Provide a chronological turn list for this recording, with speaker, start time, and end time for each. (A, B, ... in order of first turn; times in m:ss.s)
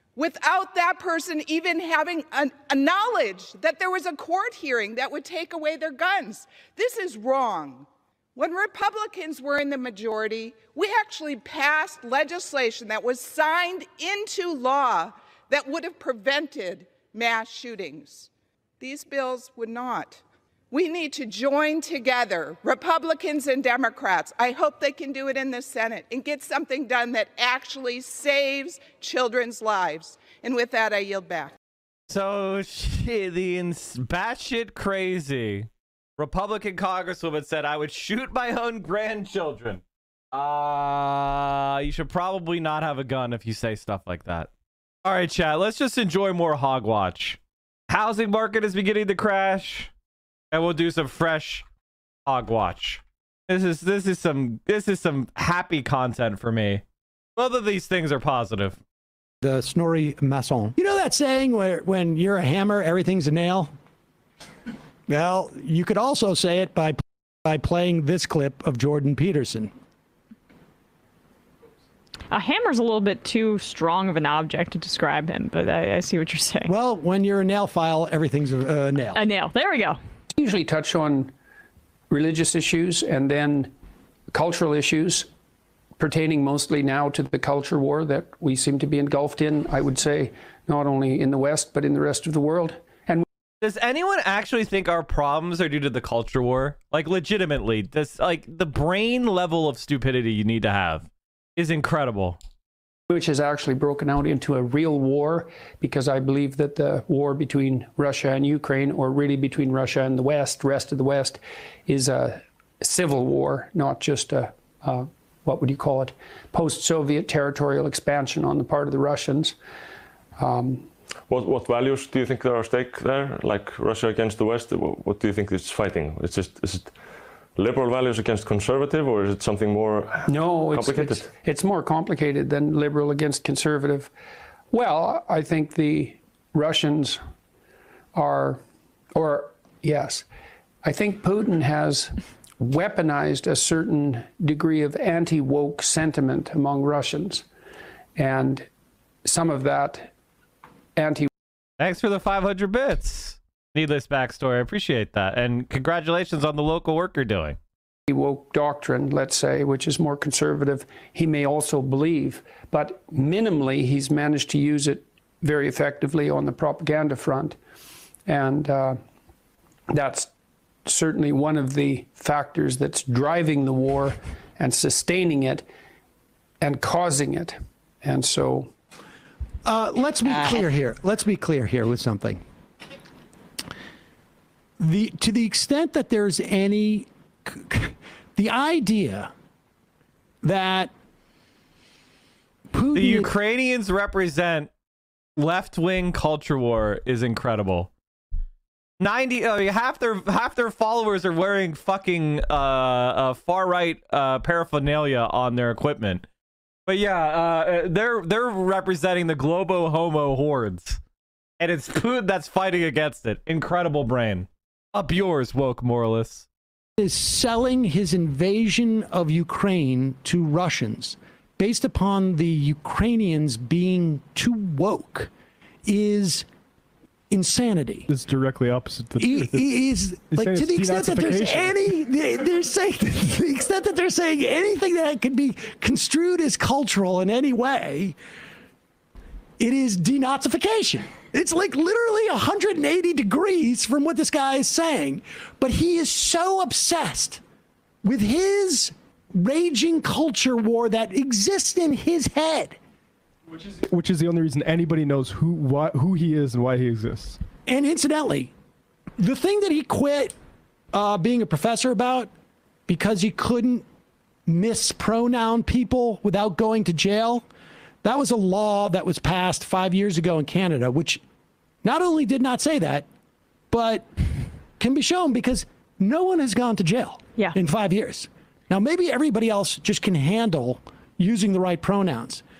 0:00.2-0:31.6 A
0:32.1-0:39.8 B
0:40.3-0:44.5 B
0:45.0-0:49.9 B
0:50.5-0:51.6 B
0:52.3-0:56.8 B
0:57.4-0:58.8 B
0:59.4-1:03.7 C
1:05.1-1:09.7 C
1:12.3-1:16.7 D
1:16.6-1:19.2 C
1:19.2-1:20.0 D
1:20.3-1:21.3 E
1:22.1-1:23.7 E
1:24.3-1:25.3 E
1:26.0-1:33.2 E
1:33.6-1:42.4 B
1:43.1-1:59.6 E
2:00.4-2:00.9 E
2:01.3-2:07.0 F
2:07.6-2:11.3 F
2:10.3-2:14.1 E
2:14.7-2:17.2 E
2:18.2-2:18.6 E
2:19.2-2:20.3 E
2:20.8-2:27.5 E
2:28.2-2:28.7 E
2:29.2-2:30.1 E
2:31.0-2:31.3 E
2:31.8-2:37.6 B
2:38.1-2:47.6 E
2:48.3-2:49.0 E
2:49.9-2:50.3 E
2:50.9-2:55.6 E
2:56.6-2:58.7 E
2:59.7-3:02.4 C
3:04.8-3:09.3 C
3:10.4-3:10.9 C
3:12.7-3:13.3 C
3:12.9-3:14.7 B
3:15.4-3:17.9 B
3:19.0-3:26.3 B
3:26.9-3:31.0 B
3:31.6-3:36.5 B
3:37.0-3:45.3 C
3:45.8-3:46.4 C
3:47.3-3:48.1 C
3:48.1-3:52.0 G
3:49.2-3:58.2 C
3:59.6-4:07.4 C
4:08.0-4:12.8 C
4:13.5-4:17.4 G
4:17.7-4:18.5 C
4:19.2-4:20.4 C
4:20.9-4:22.3 C
4:22.9-4:23.8 C
4:24.5-4:27.5 C
4:28.0-4:31.2 C
4:31.8-4:33.1 C
4:33.7-4:34.1 C
4:34.8-4:42.4 C